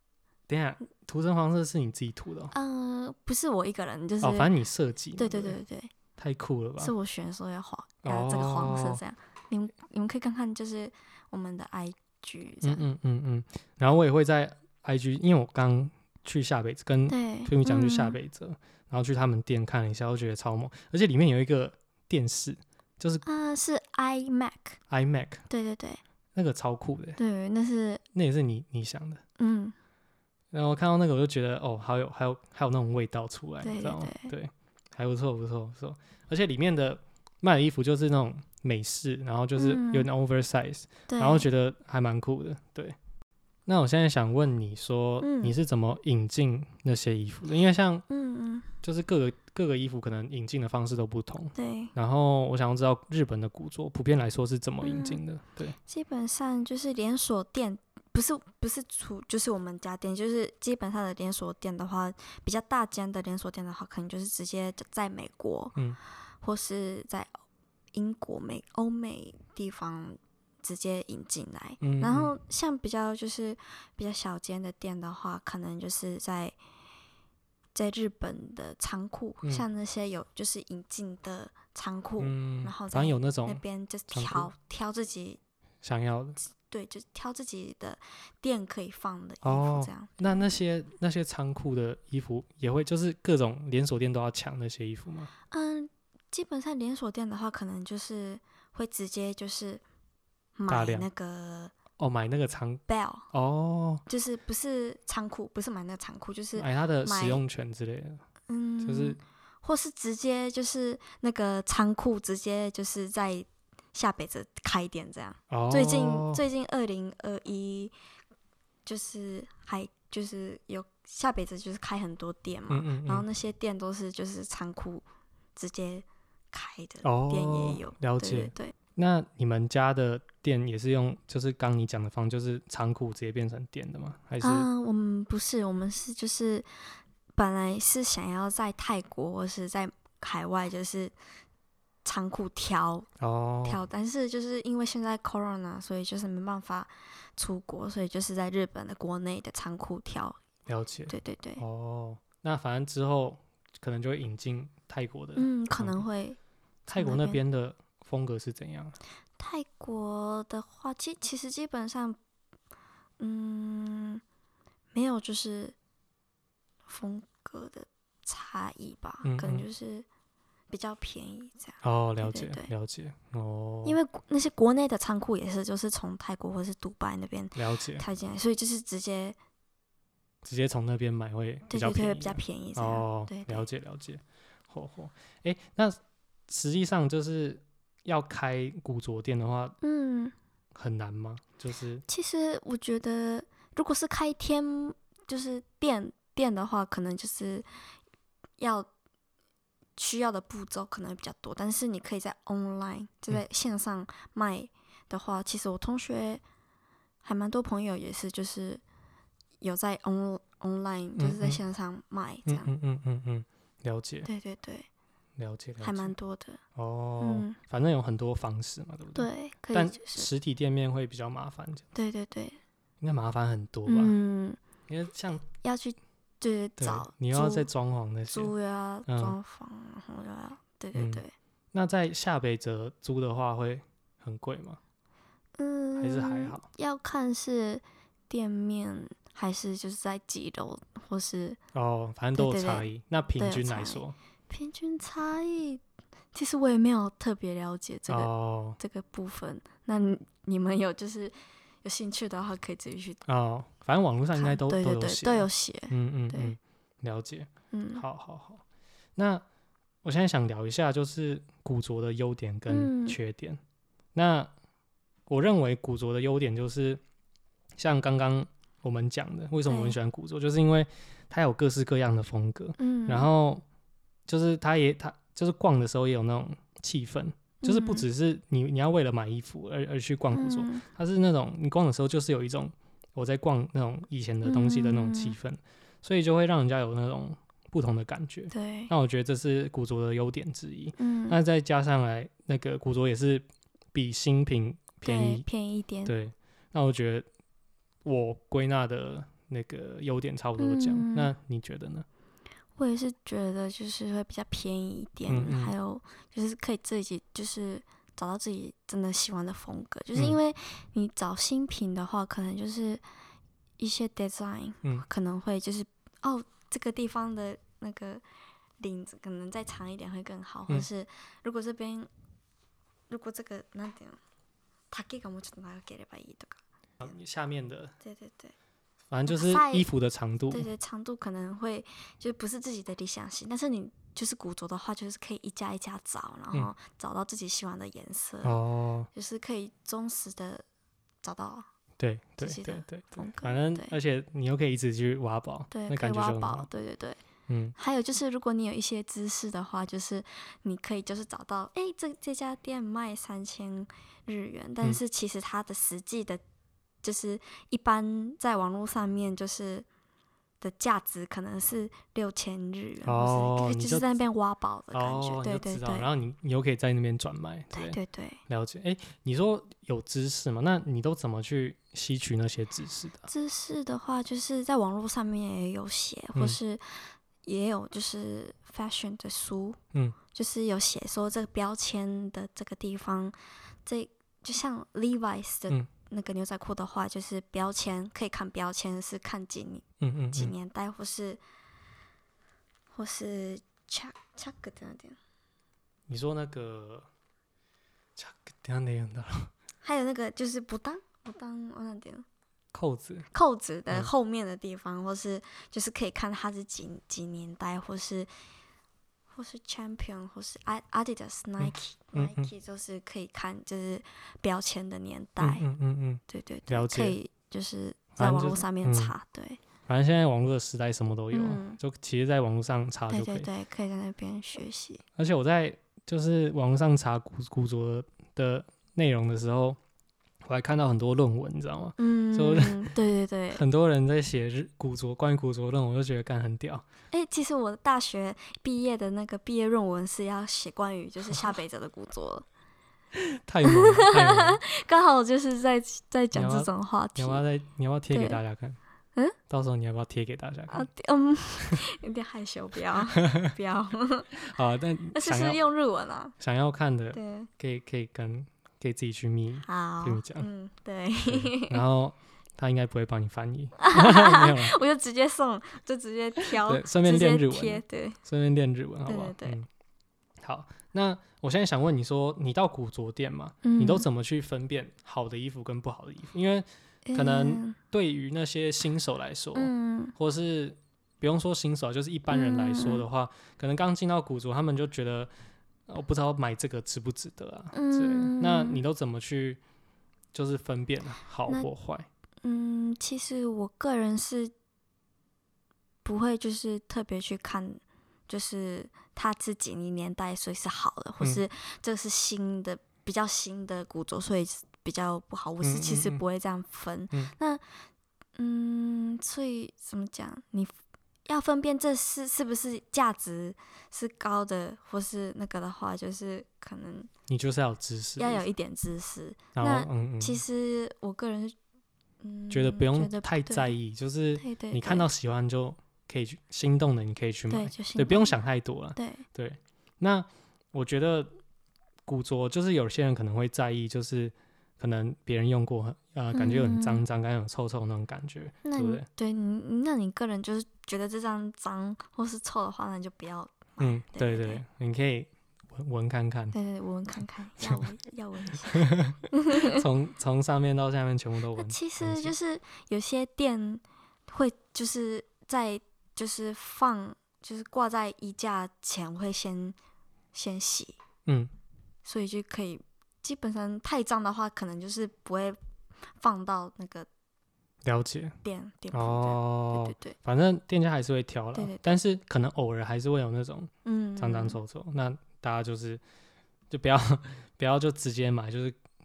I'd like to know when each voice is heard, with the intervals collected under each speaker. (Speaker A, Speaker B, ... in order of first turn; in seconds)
Speaker A: 0.5-2.5, 4.2-5.6, 6.2-6.9, 8.0-9.0, 12.6-23.2, 24.9-25.4, 26.4-27.2, 28.1-29.2, 30.5-43.0, 43.7-48.0, 48.8-55.8, 71.8-72.3, 82.2-84.5, 85.8-86.4, 89.4-95.3, 100.7-101.1, 102.0-104.0, 106.6-108.2, 108.8-109.2, 115.5-116.4, 122.7-123.3, 127.0-134.7, 143.2-143.8, 150.7-156.0, 156.9-159.0, 169.2-169.7, 171.8-174.0, 177.6-178.0, 180.4-189.8, 190.8-192.0, 211.2-211.6, 212.5-214.3, 215.4-216.2, 216.8-221.9, 223.0-224.2, 224.9-225.5, 226.8-228.5, 229.1-229.4, 230.9-234.8, 236.0-236.7, 241.7-244.2, 248.1-248.8, 253.3-258.6, 259.2-259.4, 260.0-263.6, 264.1-264.5, 265.3-267.0, 267.8-273.6, 274.3-295.4, 296.1-297.3, 298.0-302.1, 305.3-305.7, 327.0-327.9, 329.1-330.7, 338.4-339.1, 342.0-346.7, 347.5-347.8, 363.1-364.1, 364.9-373.3, 390.0-390.5, 396.1-397.1, 398.2-399.5, 402.7-403.3, 411.6-412.5, 415.4-417.2, 418.2-419.1, 419.9-423.5, 425.2-429.8, 430.4-432.9, 433.5-436.8, 443.1-444.6, 446.3-448.8, 449.5-450.9, 453.1-453.5, 454.4-455.6, 456.4-460.5, 461.3-464.8, 466.6-469.7, 470.4-485.3, 485.9-489.6, 490.3-492.1, 505.6-506.2, 517.3-518.4, 519.5-520.4, 522.5-531.4, 532.1-539.1, 543.8-546.6, 548.7-552.3, 561.3-561.5, 567.9-568.4, 568.9-576.0, 576.7-578.8
Speaker B: 2.5-4.5, 5.2-5.9, 6.8-12.9, 17.1-18.2, 23.2-24.8, 25.5-26.0, 27.2-28.0, 29.4-29.7, 33.6-34.3, 39.6-40.1, 41.1-41.5, 45.2-45.5, 48.1-48.7, 51.5-51.9, 54.8-55.2, 55.9-65.8, 66.4-67.3, 67.9-76.5, 77.8-85.4, 86.7-90.5, 95.5-99.8, 100.6-101.7, 102.9-103.3, 104.1-107.4, 108.5-117.9, 118.9-125.0, 125.6-128.8, 134.4-136.7, 137.3-141.1, 142.1-143.1, 143.7-150.4, 151.1-151.6, 155.4-156.4, 157.0-157.4, 159.4-162.2, 163.2-164.2, 164.9-165.8, 166.9-170.1, 170.7-172.7, 173.8-179.4, 181.7-183.7, 189.8-190.3, 192.1-197.7, 198.6-198.9, 200.0-206.4, 207.2-208.8, 209.6-212.7, 214.2-214.9, 215.8-216.6, 217.2-217.6, 219.2-220.3, 221.9-222.6, 223.9-224.6, 225.6-227.7, 228.3-231.3, 235.6-241.6, 242.3-245.8, 246.3-253.2, 254.3-256.6, 257.7-258.0, 262.7-263.2, 269.7-270.0, 272.8-273.3, 277.6-278.1, 280.3-280.8, 284.4-285.4, 288.5-288.9, 291.0-291.4, 295.0-296.1, 300.6-301.3, 302.8-313.0, 313.8-318.2, 318.8-322.1, 323.1-324.2, 324.9-326.6, 328.0-328.5, 329.3-329.9, 330.5-338.6, 339.1-340.6, 341.2-341.7, 342.4-344.0, 345.7-347.2, 347.8-356.4, 357.0-359.9, 360.6-366.1, 367.7-368.4, 373.3-379.8, 380.3-391.4, 392.9-395.2, 399.8-402.2, 403.3-408.3, 409.3-415.7, 416.3-419.6, 421.3-421.8, 423.1-425.0, 432.0-433.6, 437.1-442.4, 443.6-447.4, 448.1-448.4, 450.7-454.4, 455.1-456.3, 457.1-457.5, 459.6-461.8, 463.8-468.2, 469.1-469.6, 473.6-474.1, 477.1-477.8, 479.6-480.1, 482.3-483.0, 487.7-488.8, 492.4-494.5, 496.0-507.6, 508.4-510.7, 511.3-517.1, 518.2-521.5, 522.2-523.8, 524.4-525.1, 527.5-528.4, 529.0-529.2, 536.3-537.0, 538.6-544.6, 546.5-549.8, 551.6-559.8, 560.3-561.0, 562.0-565.6, 566.2-567.1, 568.4-570.2, 571.5-571.9, 573.9-574.6